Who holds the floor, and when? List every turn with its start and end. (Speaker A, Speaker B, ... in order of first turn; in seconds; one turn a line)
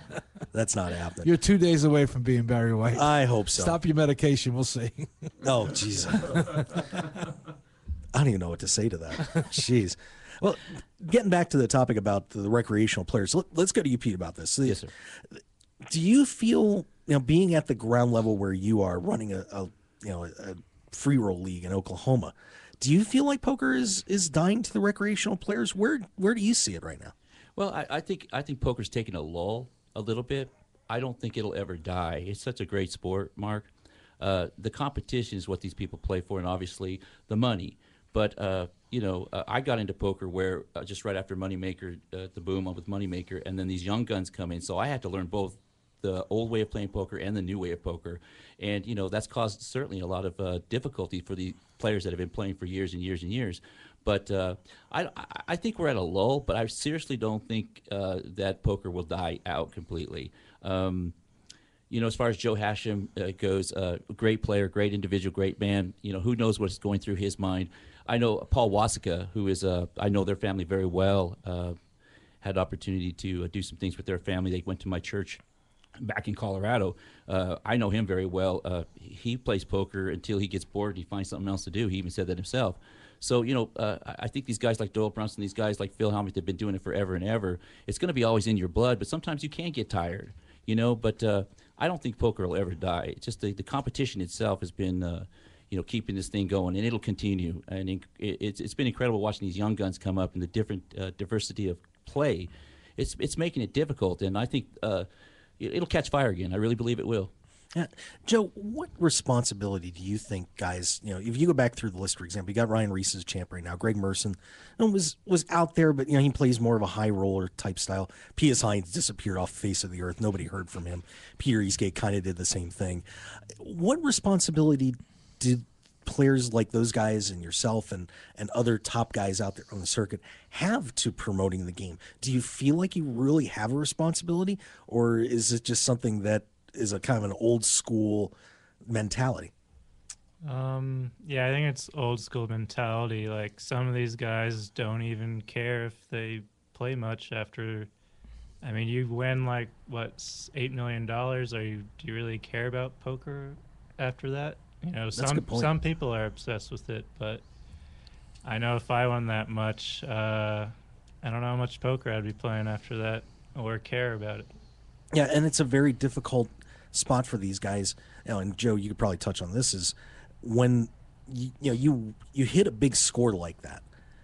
Speaker A: 0.5-1.4
Speaker B: 1.2-5.3
Speaker A: 2.9-3.8
Speaker A: 5.4-6.8
Speaker B: 6.3-6.6
Speaker A: 8.1-27.1
Speaker C: 27.6-33.7
Speaker C: 34.2-61.1
Speaker C: 61.9-71.8
Speaker C: 72.4-75.4
Speaker C: 76.0-105.1
Speaker C: 105.6-107.3
Speaker A: 107.7-123.0
Speaker A: 123.6-139.5
Speaker D: 140.4-147.9
Speaker D: 148.6-157.4
Speaker A: 155.1-155.8
Speaker D: 158.4-164.5
Speaker A: 165.1-173.8